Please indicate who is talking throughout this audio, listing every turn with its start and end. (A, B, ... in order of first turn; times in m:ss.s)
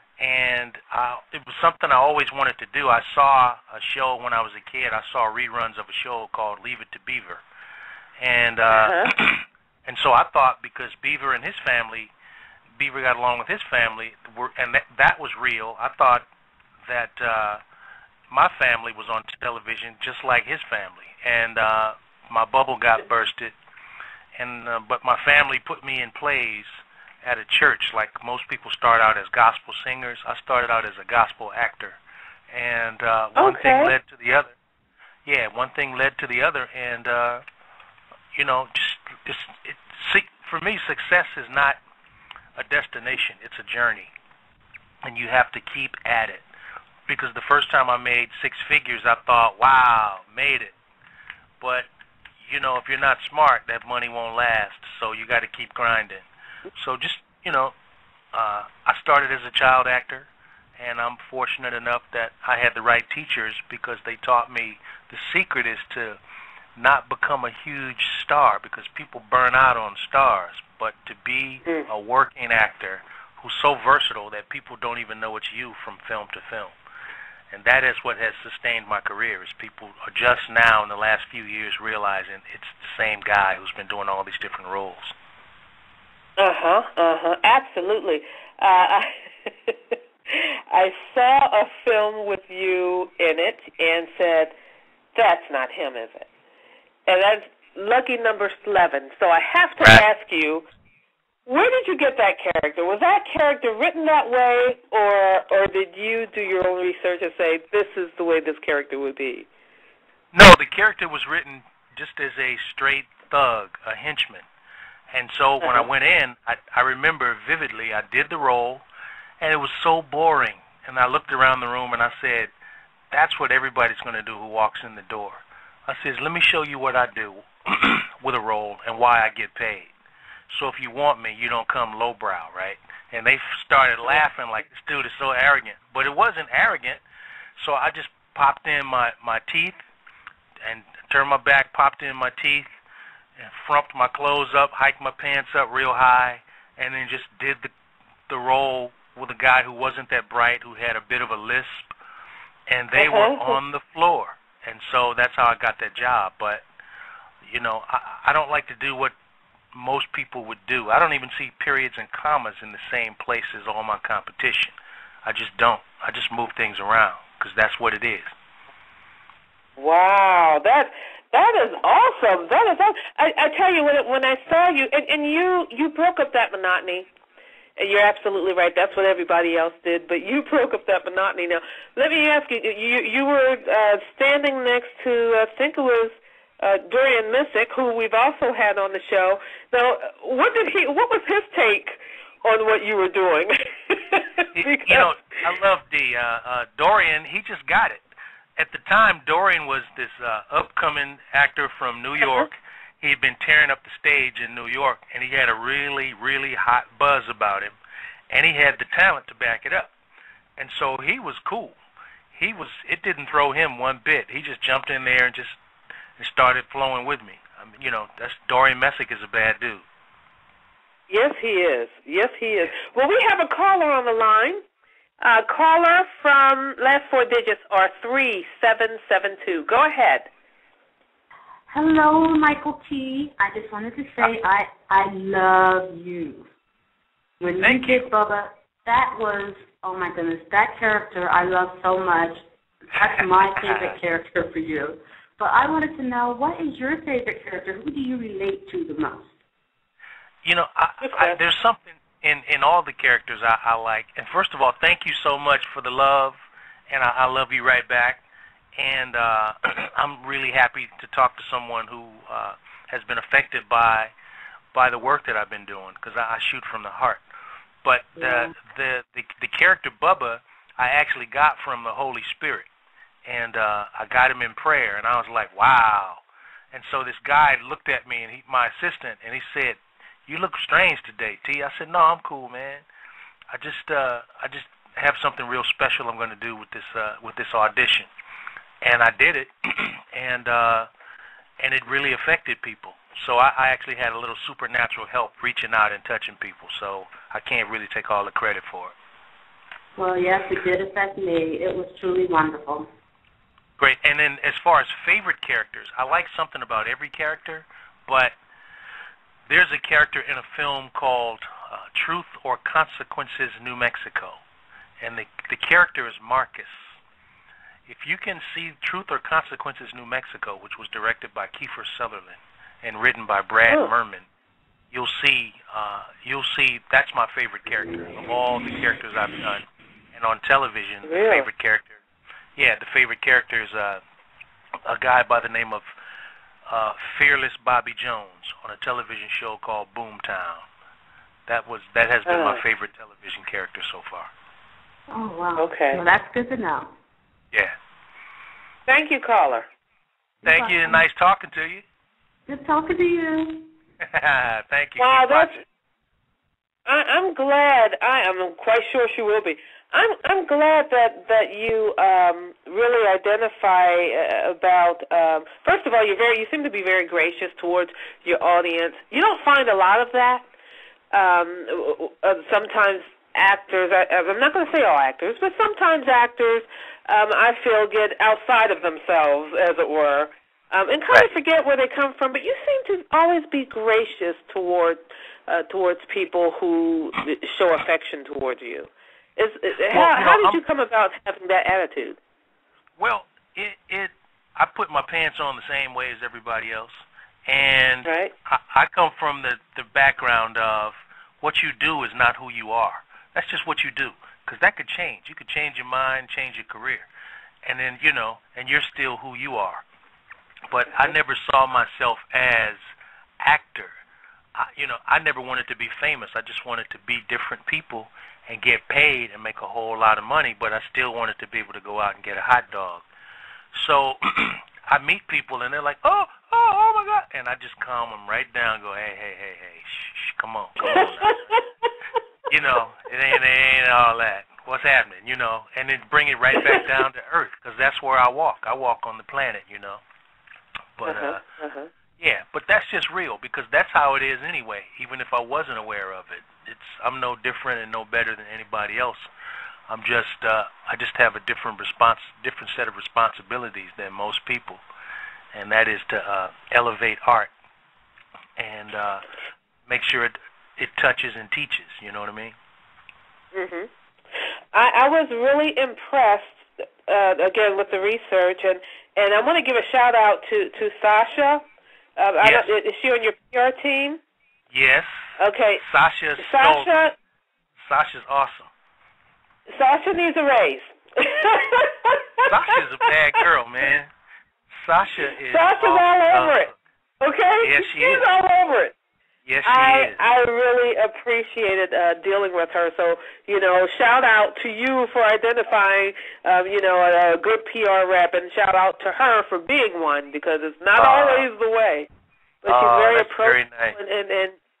0:00.2-0:07.4 A
0:08.2-0:12.1 A
0:08.7-0:09.1 B
0:12.8-0:16.2 A
0:16.8-0:17.6 A
0:18.3-0:23.5 A
0:24.4-0:32.0 A
0:32.5-0:34.5 A
0:33.4-0:33.9 B
0:35.2-0:37.4 A
0:38.3-0:41.8 A
0:42.6-0:44.1 A
0:45.0-0:46.4 A
0:47.1-0:50.7 A
0:51.6-0:51.9 A
0:52.5-0:57.7 A
0:58.3-1:06.2 A
1:06.8-1:16.7 A
1:17.5-1:25.1 A
1:26.4-1:34.5 B
1:35.1-1:36.3 B
1:37.0-1:40.6 B
1:41.4-1:49.5 B
1:50.3-1:54.4 A
1:55.1-1:58.8 A
1:55.6-1:55.9 B
1:59.4-2:02.5 A
2:03.1-2:09.9 A
2:10.5-2:17.0 A
2:17.6-2:19.8 A
2:20.6-2:22.7 A
2:23.4-2:27.7 A
2:28.3-2:31.9 A
2:32.7-2:36.6 A
2:33.0-2:33.6 B
2:37.4-2:39.1 A
2:39.7-2:48.3 A
2:49.8-2:57.1 B
2:57.8-3:15.1 B
3:14.5-3:18.0 A
3:18.6-3:27.7 A
3:22.2-3:22.5 B
3:28.3-3:29.9 A
3:30.6-3:31.8 A
3:32.3-3:35.6 A
3:36.2-3:39.8 A
3:41.1-3:44.6 B
3:45.2-3:50.3 B
3:51.7-3:56.5 C
3:57.4-4:02.4 C
3:57.6-3:58.1 A
4:02.9-4:09.3 C
4:03.1-4:04.0 A
4:10.4-4:16.4 A
4:11.0-4:11.4 B
4:16.9-4:18.2 A
4:18.8-4:24.1 A
4:24.7-4:27.2 A
4:27.8-4:32.7 A
4:33.2-4:36.2 A
4:36.7-4:42.8 A
4:43.5-4:48.1 A
4:48.8-4:50.9 A
4:51.6-4:58.9 A
5:00.0-5:02.9 C
5:03.8-5:08.3 A
5:09.5-5:14.4 A
5:15.0-5:16.9 A
5:17.9-5:24.2 A
5:24.9-5:32.0 A
5:31.0-5:31.5 B
5:32.6-5:34.0 A
5:34.8-5:35.9 A
5:36.7-5:40.7 A
5:41.5-5:44.3 A
5:42.2-5:42.6 B
5:45.1-5:46.9 C
5:45.6-5:46.0 B
5:48.9-5:49.7 B
5:50.4-5:51.0 C
5:50.4-5:51.8 A
5:52.5-5:53.7 C
5:54.0-5:55.6 A
5:55.0-5:55.6 B
5:56.8-6:10.4 B
6:11.1-6:32.2 B
6:29.9-6:30.6 A
6:33.0-6:47.0 A
6:38.0-6:38.3 B
6:47.6-6:49.8 A
6:50.7-6:52.8 A
6:53.4-6:53.9 A
6:54.5-7:03.0 A
7:03.7-7:11.4 A
7:10.8-7:11.9 B
7:12.5-7:20.0 A
7:16.6-7:16.9 B
7:21.0-7:21.4 A
7:21.0-7:21.9 B
7:22.2-7:29.3 A
7:29.9-7:34.8 A
7:35.5-7:37.5 A
7:38.6-7:39.2 A
7:39.9-7:42.6 A
7:43.5-7:43.9 B
7:44.7-7:51.6 B
7:52.2-7:54.2 B
7:52.4-7:52.7 A
7:54.7-7:55.3 A
7:55.4-7:55.8 B
7:55.8-7:56.9 A
7:56.4-7:57.2 B
7:57.8-7:58.7 A
7:59.7-8:03.1 B
8:02.4-8:04.1 A
8:04.7-8:06.8 A
8:05.5-8:08.9 B
8:07.6-8:08.2 A
8:09.4-8:10.2 A
8:09.6-8:22.1 B
8:21.0-8:21.4 A
8:22.6-8:24.6 B
8:22.6-8:24.0 A